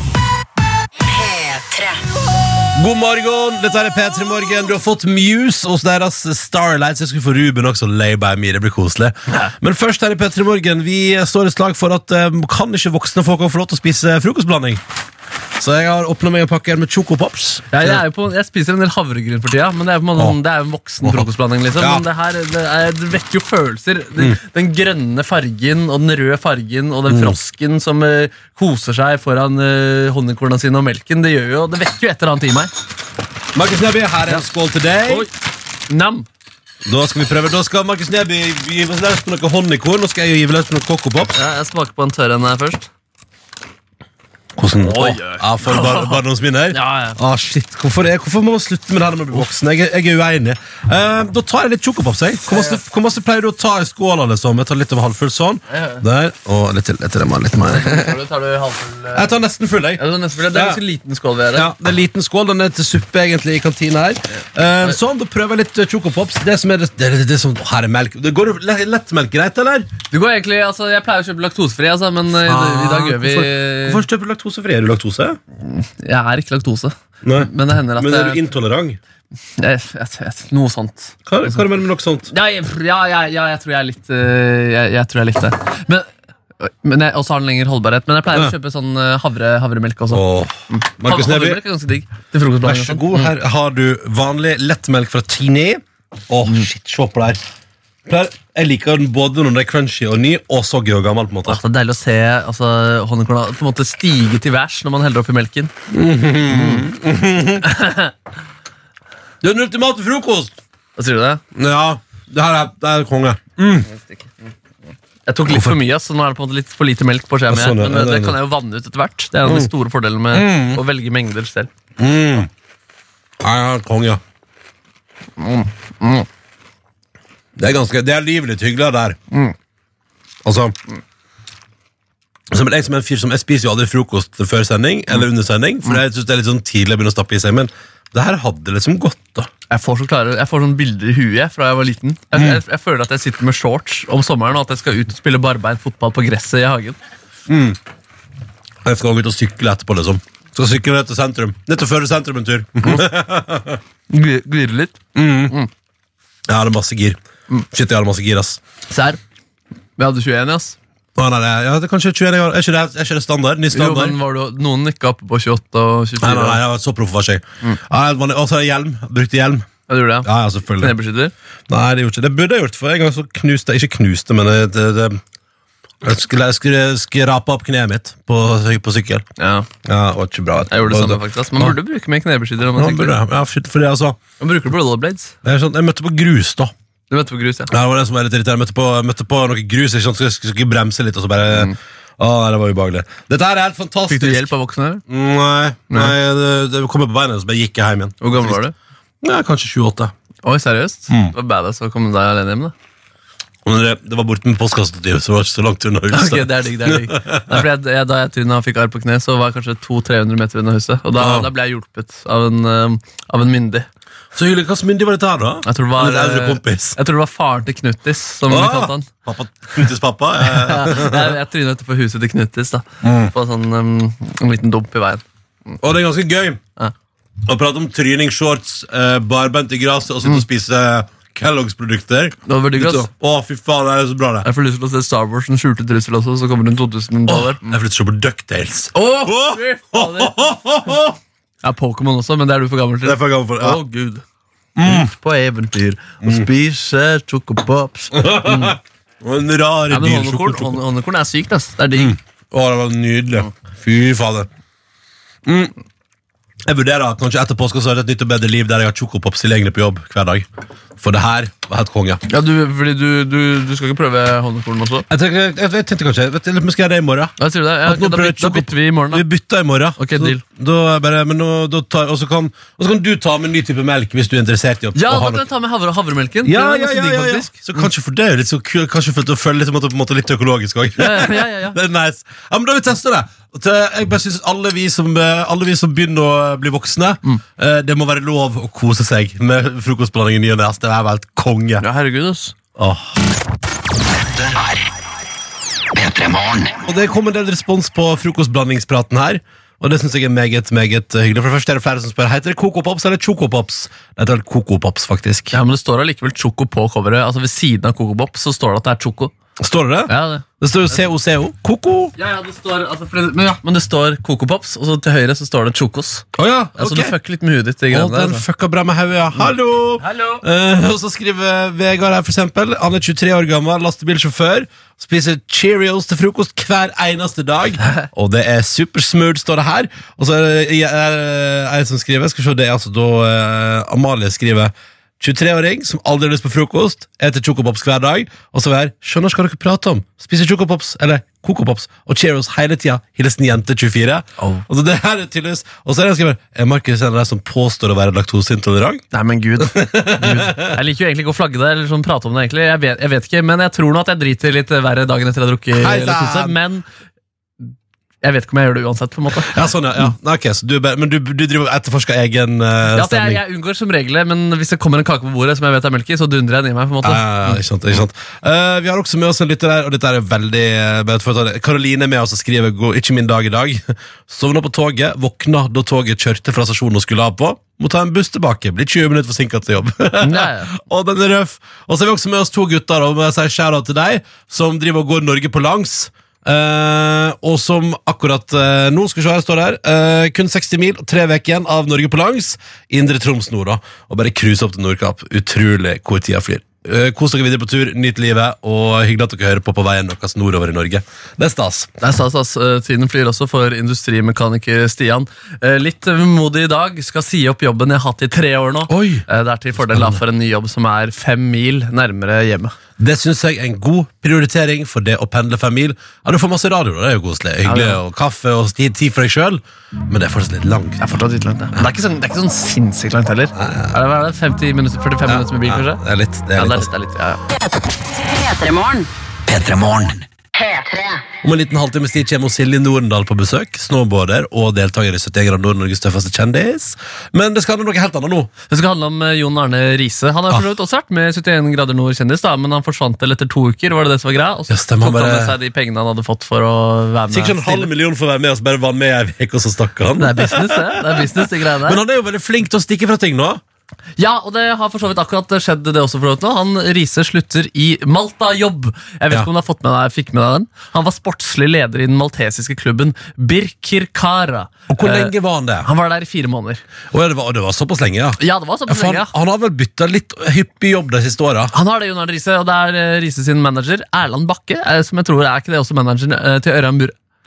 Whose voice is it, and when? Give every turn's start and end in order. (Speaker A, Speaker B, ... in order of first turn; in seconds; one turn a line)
Speaker A: 1.1-2.0
Speaker B: 2.8-14.8
Speaker B: 15.6-18.0
Speaker C: 17.7-32.7
Speaker B: 21.0-22.1
Speaker B: 27.1-27.4
Speaker B: 33.5-35.3
Speaker C: 35.9-36.3
Speaker B: 36.9-41.3
Speaker C: 41.3-42.9
Speaker B: 44.6-58.2
Speaker C: 44.8-47.2
Speaker C: 52.5-52.8
Speaker C: 55.7-56.0
Speaker C: 57.5-59.3
Speaker B: 59.1-60.8
Speaker C: 60.0-61.7
Speaker B: 61.5-69.9
Speaker C: 70.1-74.0
Speaker B: 72.3-75.4
Speaker C: 75.6-78.4
Speaker B: 77.2-79.0
Speaker C: 79.6-81.7
Speaker B: 81.3-82.3
Speaker C: 82.3-86.1
Speaker C: 86.6-93.3
Speaker B: 90.1-91.6
Speaker B: 92.6-97.4
Speaker B: 98.1-101.6
Speaker C: 101.5-105.7
Speaker B: 105.9-107.7
Speaker C: 106.5-106.9
Speaker C: 107.6-108.1
Speaker B: 109.4-110.5
Speaker C: 111.0-111.4
Speaker B: 111.5-113.9
Speaker C: 113.9-114.3
Speaker C: 115.3-121.7
Speaker B: 115.5-115.8
Speaker B: 117.5-118.4
Speaker B: 119.5-119.7
Speaker B: 120.3-120.8
Speaker B: 122.0-122.5
Speaker B: 123.4-124.2
Speaker C: 125.4-126.3
Speaker B: 127.6-129.2
Speaker B: 130.4-130.8
Speaker B: 132.5-139.5
Speaker C: 139.7-147.0
Speaker B: 142.3-142.6
Speaker B: 147.5-147.8
Speaker B: 148.8-153.8
Speaker C: 154.1-155.7
Speaker B: 155.1-155.6
Speaker B: 156.5-158.6
Speaker C: 158.9-159.2
Speaker C: 160.0-160.8
Speaker B: 161.2-164.2
Speaker C: 163.7-166.6
Speaker B: 166.2-169.7
Speaker C: 169.9-171.3
Speaker B: 170.2-171.0
Speaker B: 171.7-175.2
Speaker B: 176.0-179.2
Speaker C: 179.4-179.7
Speaker B: 179.8-181.8
Speaker C: 180.7-183.2
Speaker B: 182.7-184.2
Speaker C: 184.4-185.3
Speaker B: 185.4-186.7
Speaker C: 187.1-187.7
Speaker B: 187.7-194.5
Speaker C: 191.5-191.8
Speaker C: 194.1-195.0
Speaker B: 195.1-198.6
Speaker C: 195.9-196.2
Speaker C: 198.2-198.7
Speaker B: 199.2-200.1
Speaker C: 200.4-202.7
Speaker B: 203.7-207.6
Speaker C: 206.1-213.9
Speaker B: 211.2-211.5
Speaker B: 214.3-217.0
Speaker C: 215.7-219.1
Speaker B: 218.5-221.4
Speaker C: 220.4-225.2
Speaker B: 223.0-223.3
Speaker B: 225.8-226.6
Speaker B: 227.4-234.5
Speaker C: 232.5-233.1
Speaker C: 234.4-237.8
Speaker B: 237.3-241.2
Speaker C: 238.9-240.9
Speaker C: 241.6-244.2
Speaker B: 243.0-243.8
Speaker B: 244.8-245.1
Speaker C: 244.8-248.8
Speaker B: 248.1-250.8
Speaker C: 249.9-252.2
Speaker B: 251.9-254.5
Speaker B: 255.4-255.7
Speaker B: 256.7-260.5
Speaker B: 261.0-262.2
Speaker C: 262.3-265.1
Speaker B: 265.1-275.4
Speaker C: 267.4-269.2
Speaker C: 270.0-270.4
Speaker C: 274.9-277.9
Speaker B: 276.4-291.9
Speaker C: 281.0-281.8
Speaker C: 291.8-292.6
Speaker B: 292.8-293.1
Speaker D: 294.3-294.9
Speaker D: 295.9-296.8
Speaker B: 296.9-305.6
Speaker C: 305.5-309.3
Speaker B: 309.6-312.1
Speaker C: 310.1-310.4
Speaker C: 312.2-316.3
Speaker B: 316.4-317.1
Speaker C: 316.8-318.4
Speaker B: 317.9-349.0
Speaker C: 320.0-320.4
Speaker C: 344.4-344.6
Speaker C: 349.1-356.9
Speaker B: 349.6-350.8
Speaker B: 355.8-356.6
Speaker C: 358.2-359.6
Speaker B: 359.4-363.4
Speaker C: 362.9-367.6
Speaker B: 367.0-401.9
Speaker C: 380.2-380.7
Speaker C: 402.0-412.8
Speaker B: 408.9-409.2
Speaker B: 409.8-410.2
Speaker B: 413.0-421.0
Speaker C: 417.6-418.0
Speaker C: 421.0-426.0
Speaker B: 423.5-424.0
Speaker B: 425.2-426.9
Speaker C: 426.6-427.4
Speaker A: 428.4-429.1
Speaker D: 429.5-430.9
Speaker A: 430.6-431.2
Speaker B: 431.4-438.5
Speaker C: 438.7-447.9
Speaker B: 444.7-445.6
Speaker B: 447.3-453.6
Speaker C: 450.2-452.0
Speaker C: 454.2-466.8
Speaker B: 464.9-465.9
Speaker B: 467.1-471.7
Speaker C: 468.4-469.3
Speaker C: 471.7-477.1